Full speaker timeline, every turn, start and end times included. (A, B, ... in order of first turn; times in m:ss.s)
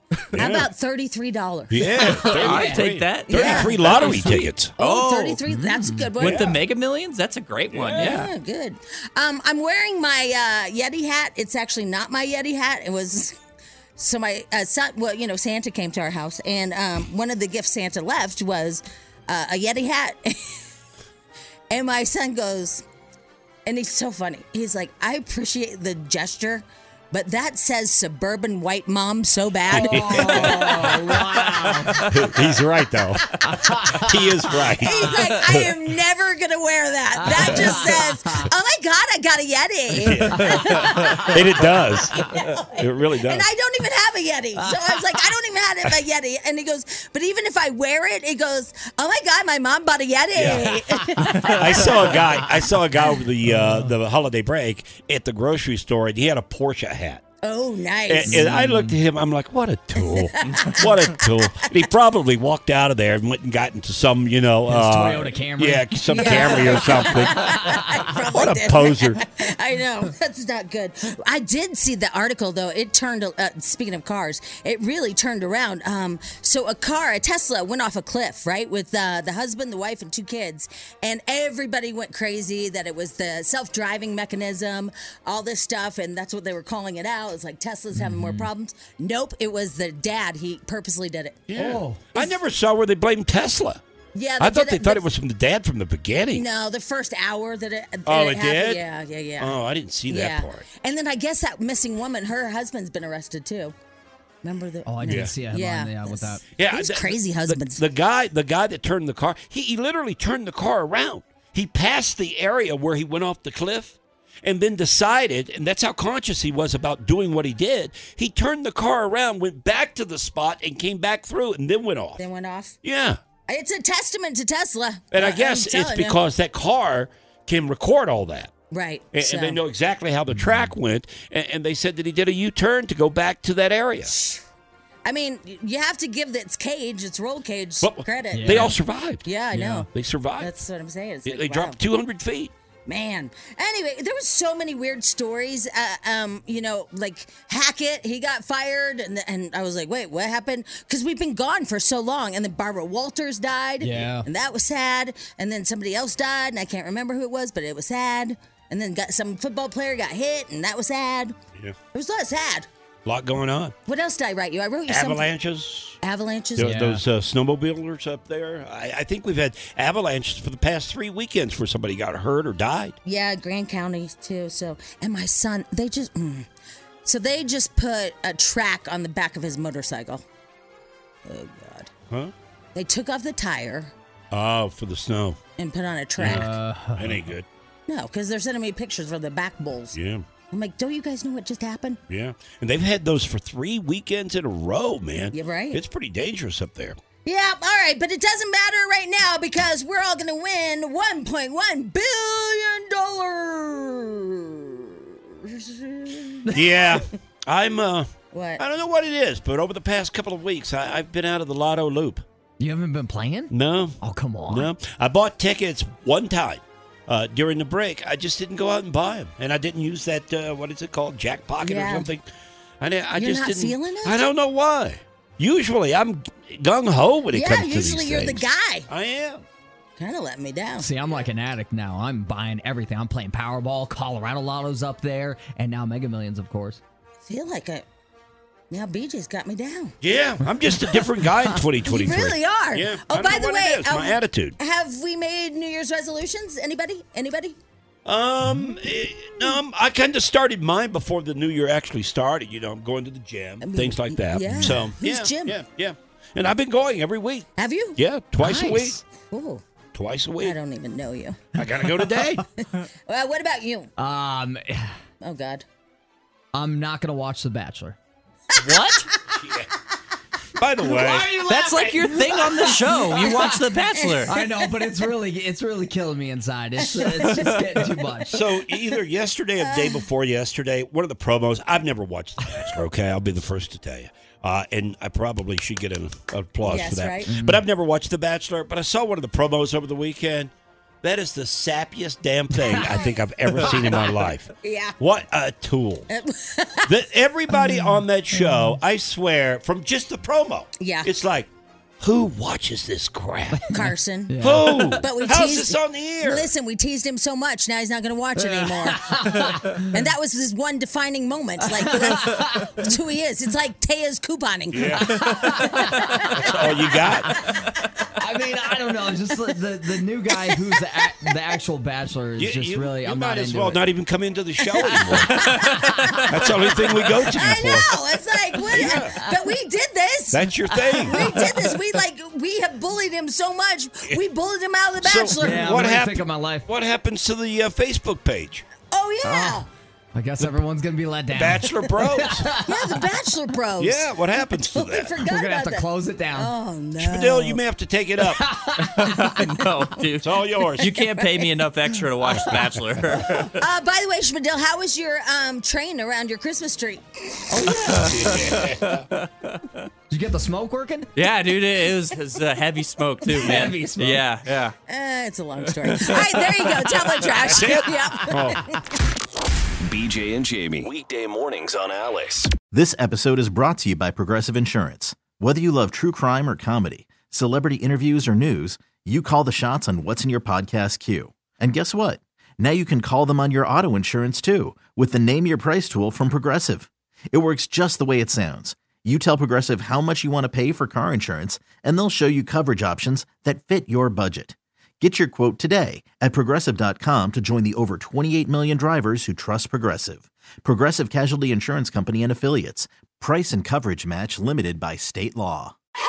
0:00.3-0:00.7 A
0:00.3-0:02.8 B
0:01.7-0:04.7 A
0:02.2-0:05.4 C
0:03.3-0:06.5 B
0:05.5-0:06.2 D
0:06.2-0:08.3 C
0:06.2-0:06.6 A
0:07.7-0:08.2 A
0:08.0-0:13.4 B
0:14.0-0:20.6 B
0:21.7-0:22.8 B
0:23.7-0:31.0 B
0:29.7-0:30.8 A
0:29.7-0:32.2 D
0:32.1-0:35.7 A
0:33.4-0:34.7 D
0:34.8-0:41.4 B
0:37.2-0:38.5 D
0:40.0-0:43.4 A
0:40.0-0:41.6 D
0:42.2-0:42.5 D
0:42.2-0:52.1 B
0:44.7-0:44.9 D
0:50.4-0:50.7 A
0:51.2-0:52.2 D
0:51.3-0:57.2 A
0:53.4-0:53.9 D
0:57.4-0:58.4 B
0:58.1-1:09.2 A
0:58.3-0:59.0 D
1:00.0-1:01.7 B
1:04.7-1:08.1 D
1:06.1-1:31.4 B
1:27.9-1:28.5 D
1:31.5-1:33.8 A
1:31.6-1:32.0 D
1:34.2-1:35.0 B
1:34.4-1:36.4 A
1:36.3-1:39.6 B
1:38.1-1:38.8 A
1:39.4-1:40.7 A
1:40.1-1:43.8 B
1:44.4-1:47.8 B
1:44.9-1:46.4 D
1:45.1-1:45.3 A
1:46.6-2:02.2 A
2:02.2-2:02.8 B
2:02.8-2:03.2 A
2:03.5-2:06.2 B
2:05.1-2:08.5 A
2:08.7-2:09.6 B
2:09.1-2:14.1 A
2:10.3-2:10.7 D
2:14.0-2:14.4 B
2:15.1-2:19.9 B
2:17.8-2:19.2 A
2:18.3-2:18.7 D
2:19.5-2:19.9 D
2:19.9-2:20.5 A
2:20.4-2:21.8 B
2:21.3-2:22.5 A
2:22.9-2:41.4 B
2:33.8-2:34.3 D
2:41.9-2:42.7 B
2:43.0-2:43.8 A
2:43.9-2:45.3 B
2:44.9-2:46.0 A
2:46.0-2:46.7 B
2:46.6-2:53.0 A
2:46.6-2:47.0 D
2:53.0-2:56.5 B
2:57.0-3:00.2 B
3:01.2-3:01.9 B
3:02.8-3:03.9 B
3:04.3-3:05.4 A
3:05.6-3:06.6 B
3:06.2-3:07.5 A
3:06.2-3:07.2 D
3:07.9-3:10.0 B
3:10.0-3:10.2 A
3:10.5-3:12.0 B
3:12.1-3:17.0 A
3:15.3-3:15.8 B
3:17.2-3:26.5 B
3:26.5-3:32.2 A
3:28.3-3:28.6 B
3:32.6-3:34.7 D
3:33.5-3:34.0 A
3:34.5-3:42.2 A
3:41.6-3:42.1 B
3:42.8-3:49.4 A
3:43.2-3:44.3 B
3:47.3-3:48.9 B
3:50.0-3:50.9 B
3:50.8-3:56.8 D
3:57.3-3:57.8 B
3:58.7-4:00.0 B
4:00.0-4:04.6 A
4:01.8-4:07.6 B
4:08.0-4:19.0 A
4:08.4-4:08.8 D
4:13.6-4:15.6 B
4:14.5-4:14.8 D
4:17.6-4:18.0 B
4:18.4-4:19.0 D
4:19.3-4:19.6 B
4:19.9-4:20.6 A
4:20.4-4:21.4 B
4:21.6-4:22.4 A
4:22.8-4:23.9 B
4:24.0-4:25.0 D
4:25.2-4:25.6 B
4:26.5-4:28.0 D
4:28.6-4:29.1 C
4:29.3-4:29.7 A
4:30.6-4:31.4 A
4:30.8-4:33.7 D
4:31.5-4:34.4 C
4:33.2-4:34.7 B
4:34.3-4:38.4 D
4:36.8-4:37.6 B
4:38.3-4:50.5 A
4:39.6-4:40.0 B
4:46.6-4:47.3 B
4:47.3-4:47.6 D
4:51.0-4:56.1 A
4:52.8-4:53.1 B
4:54.6-4:55.0 B
4:56.1-4:56.9 B
4:56.9-5:01.5 A
4:57.6-4:58.8 D
5:00.8-5:01.1 B
5:02.0-5:03.7 A
5:03.6-5:05.0 D
5:03.7-5:04.4 B
5:04.4-5:06.5 A
5:05.0-5:09.3 B
5:08.5-5:09.9 D
5:09.9-5:16.5 B
5:11.7-5:12.9 D
5:14.7-5:15.1 A
5:15.0-5:16.5 D
5:16.3-5:17.4 A
5:17.3-5:17.7 B
5:18.2-5:23.8 D
5:22.4-5:27.9 A
5:24.9-5:26.3 B
5:24.9-5:26.2 D
5:27.3-5:30.5 B
5:28.7-5:29.2 A
5:28.7-5:29.0 D
5:30.3-5:31.3 A
5:30.9-5:31.8 D
5:31.1-5:35.7 B
5:35.0-5:38.7 A
5:35.4-5:36.7 D
5:38.9-5:39.7 B
5:39.2-5:39.6 D
5:40.2-5:43.0 D
5:41.3-5:42.5 A
5:42.6-5:44.1 B
5:43.8-5:45.1 A
5:44.7-5:47.6 B
5:45.2-5:46.5 D
5:47.0-5:48.4 A
5:48.3-5:49.6 D
5:49.0-5:53.6 C
5:50.2-5:51.0 A
5:53.6-5:57.5 B
5:57.5-5:58.6 D
5:57.8-5:59.1 A
5:59.1-5:59.8 C
6:00.1-6:01.1 D
6:01.2-6:04.8 C
6:03.4-6:04.3 D
6:04.9-6:08.8 B
6:05.9-6:06.2 C
6:07.3-6:08.6 A
6:09.8-6:12.5 E
6:12.7-6:45.8 F